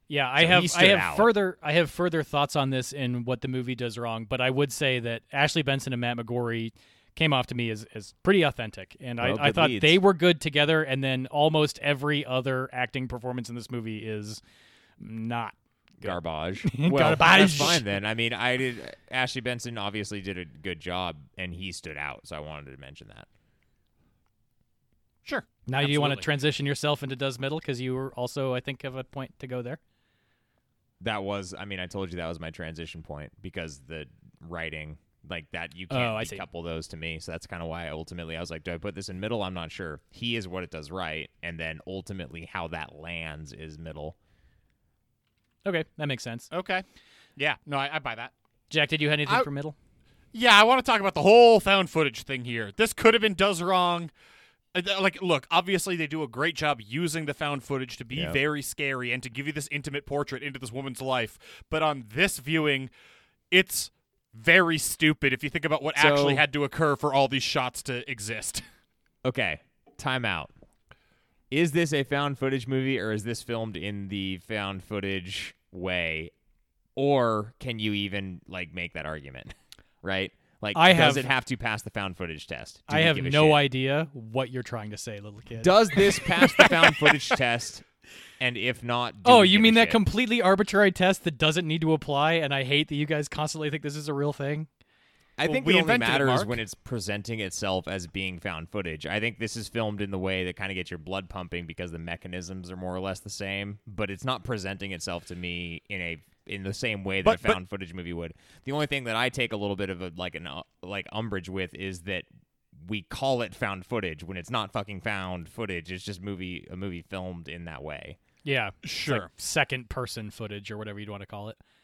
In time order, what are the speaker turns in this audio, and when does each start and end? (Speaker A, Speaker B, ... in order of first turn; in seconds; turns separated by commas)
Speaker A: 0.1-14.4, Speaker B: 0.4-1.3, Speaker B: 9.2-10.0, Speaker A: 15.0-17.8, Speaker B: 16.0-23.3, Speaker C: 25.2-26.2, Speaker A: 25.7-29.8, Speaker B: 31.0-44.1, Speaker A: 35.9-36.4, Speaker A: 45.6-46.5, Speaker C: 46.5-46.8, Speaker C: 47.4-48.3, Speaker A: 48.7-49.7, Speaker C: 50.3-54.1, Speaker C: 54.7-62.9, Speaker B: 58.1-58.4, Speaker C: 63.5-68.6, Speaker B: 66.0-66.4, Speaker B: 69.2-70.5, Speaker B: 71.5-76.3, Speaker B: 77.0-83.6, Speaker A: 80.7-81.3, Speaker A: 82.9-87.1, Speaker B: 85.6-87.8, Speaker B: 88.4-90.0, Speaker A: 89.2-94.7, Speaker B: 95.4-118.2, Speaker C: 95.4-96.5, Speaker C: 107.2-107.6, Speaker A: 118.4-121.6, Speaker C: 118.8-119.3